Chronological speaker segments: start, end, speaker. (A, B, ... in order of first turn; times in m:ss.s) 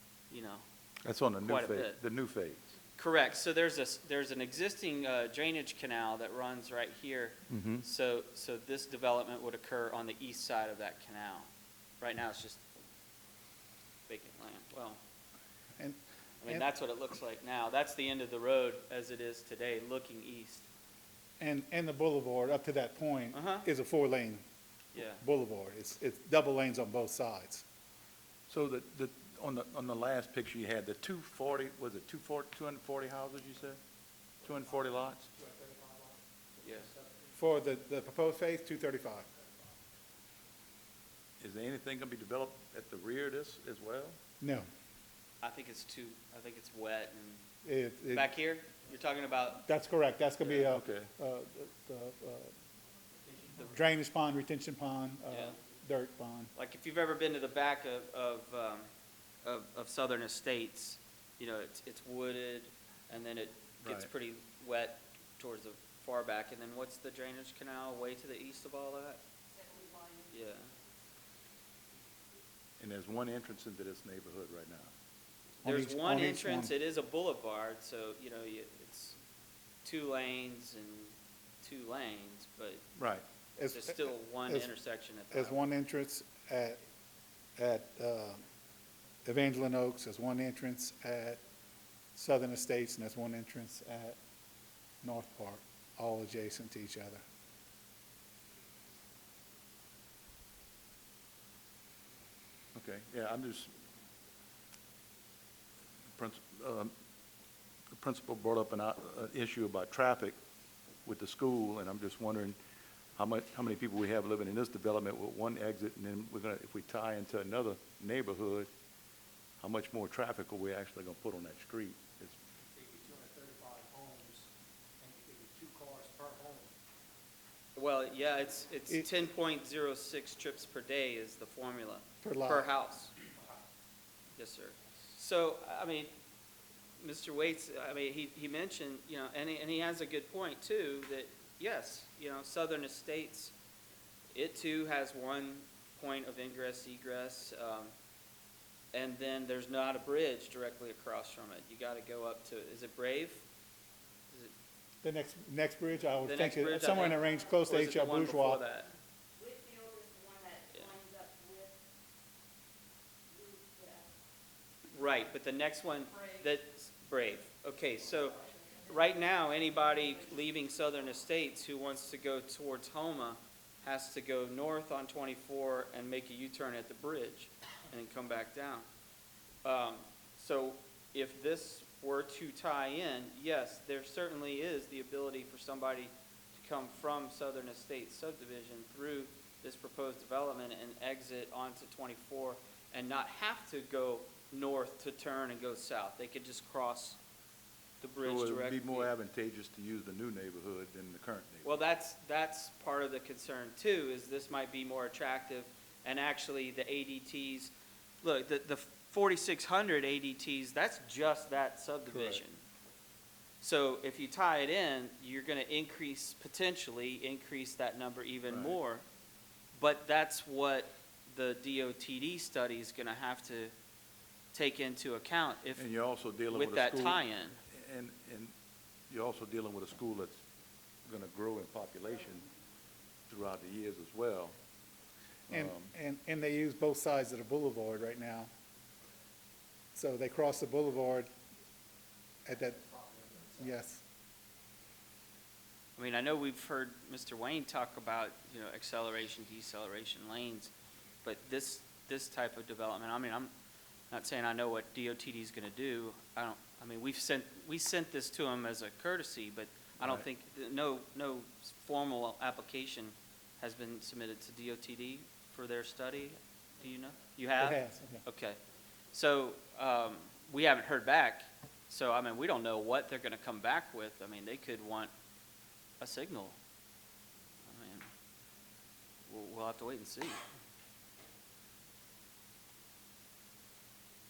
0:00.3-0:00.6 A
0:01.0-0:02.7 B
0:01.4-0:02.0 A
0:03.0-0:11.5 A
0:07.5-0:07.8 B
0:12.0-0:12.6 A
0:14.1-0:15.0 A
0:15.8-0:16.6 C
0:16.4-0:20.7 A
0:21.4-0:24.4 C
0:23.3-0:23.6 A
0:24.9-0:25.2 A
0:25.0-0:27.6 C
0:28.5-0:33.8 B
0:34.4-0:35.3 B
0:34.5-0:37.3 D
0:36.6-0:36.9 A
0:37.3-0:39.2 C
0:41.4-0:44.2 B
0:44.4-0:44.6 C
0:45.4-0:47.4 A
0:47.6-0:48.3 C
0:48.1-0:49.6 A
0:49.6-0:52.5 C
0:50.4-0:50.6 A
0:50.6-0:51.1 B
0:53.2-0:53.6 D
0:53.6-0:56.5 C
0:55.3-0:55.6 A
0:56.5-0:58.9 A
0:59.4-1:09.2 A
1:03.8-1:04.1 B
1:09.5-1:10.3 E
1:10.3-1:10.7 A
1:12.8-1:14.9 B
1:15.6-1:19.2 A
1:15.6-1:16.7 C
1:19.8-1:22.8 A
1:23.0-1:23.2 B
1:23.6-1:24.7 C
1:23.7-1:25.7 A
1:25.3-1:26.8 C
1:27.6-1:28.4 C
1:29.2-1:31.4 C
1:32.1-1:34.2 C
1:35.0-1:37.2 C
1:42.7-1:43.7 B
1:46.2-1:46.9 B
1:47.9-1:50.4 B
1:51.0-1:52.6 B
1:53.2-1:58.7 B
1:59.6-2:02.3 B
2:02.7-2:04.5 D
2:05.0-2:06.7 D
2:07.7-2:13.1 A
2:12.2-2:12.7 C
2:14.3-2:16.1 A
2:17.0-2:23.5 A
2:24.3-2:27.9 A
2:28.9-2:33.4 A
2:35.0-2:38.6 C
2:36.2-2:38.9 A
2:36.9-2:37.4 E
2:39.4-2:41.7 E
2:43.3-2:44.1 E
2:44.9-2:58.9 A
2:46.1-2:46.4 E
2:48.4-2:48.9 E
2:59.6-3:17.2 A
3:18.0-3:19.1 A
3:18.2-3:21.7 B
3:21.6-3:32.6 A
3:32.1-3:32.4 B
3:33.6-3:39.0 A
3:38.5-3:38.8 B
3:39.7-3:43.7 A
3:44.5-3:45.8 A
3:45.8-3:48.5 B
3:46.5-3:47.6 A
3:49.1-3:50.4 B
3:51.0-3:52.4 B
3:53.3-3:54.5 B
3:55.5-3:55.9 B
3:55.5-3:58.5 C
3:59.9-4:01.3 C
4:02.4-4:02.8 C
4:02.7-4:03.6 D
4:03.5-4:04.0 C
4:06.0-4:10.7 A
4:11.2-4:13.5 A
4:14.1-4:28.6 A
4:27.6-4:28.2 C
4:29.1-4:35.1 A
4:36.0-4:36.6 A
4:37.6-4:38.1 A
4:39.3-4:40.4 A